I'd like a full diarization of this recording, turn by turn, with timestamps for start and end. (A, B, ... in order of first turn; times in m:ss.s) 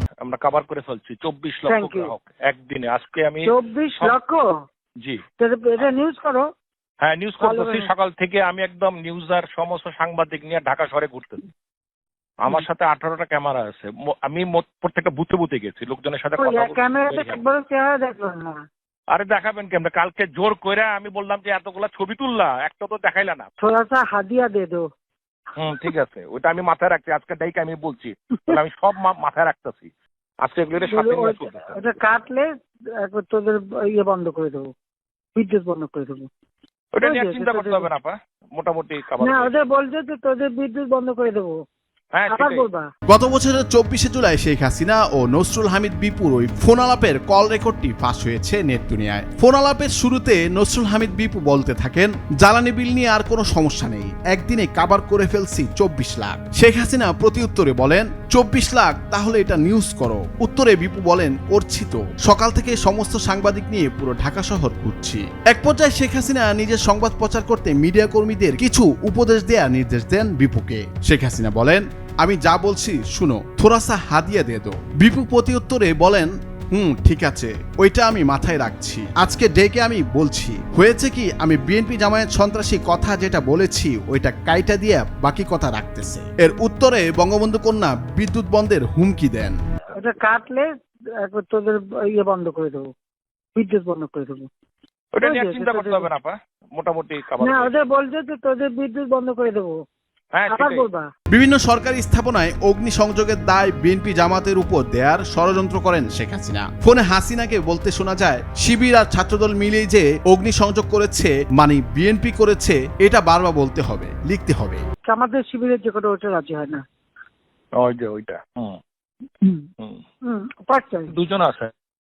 0:00.2-0:04.2 A
0:01.7-0:02.1 B
0:03.4-0:04.5 B
0:05.4-0:06.4 B
0:07.0-0:11.4 A
0:07.4-0:07.9 B
0:12.4-0:17.4 A
0:16.4-0:18.6 B
0:19.1-0:23.5 A
0:23.6-0:24.8 B
0:25.6-0:29.9 A
0:30.4-0:31.9 A
0:30.8-0:32.5 B
0:33.0-0:34.7 B
0:35.4-0:36.3 B
0:36.9-0:39.6 A
0:37.0-0:37.9 B
0:39.2-0:41.5 B
0:42.1-0:42.6 A
0:42.3-0:42.9 B
0:43.1-1:29.6 C
1:29.9-1:30.7 B
1:31.2-1:32.9 B
1:33.6-1:34.5 B
1:35.2-1:37.8 A
1:35.2-1:36.1 B
1:37.4-1:39.7 B
1:40.3-1:40.8 A
1:40.5-1:41.1 B
1:41.3-1:54.8 C
1:55.1-1:56.8 B
1:57.8-1:58.8 A
2:00.3-2:01.1 B
2:01.1-2:01.7 A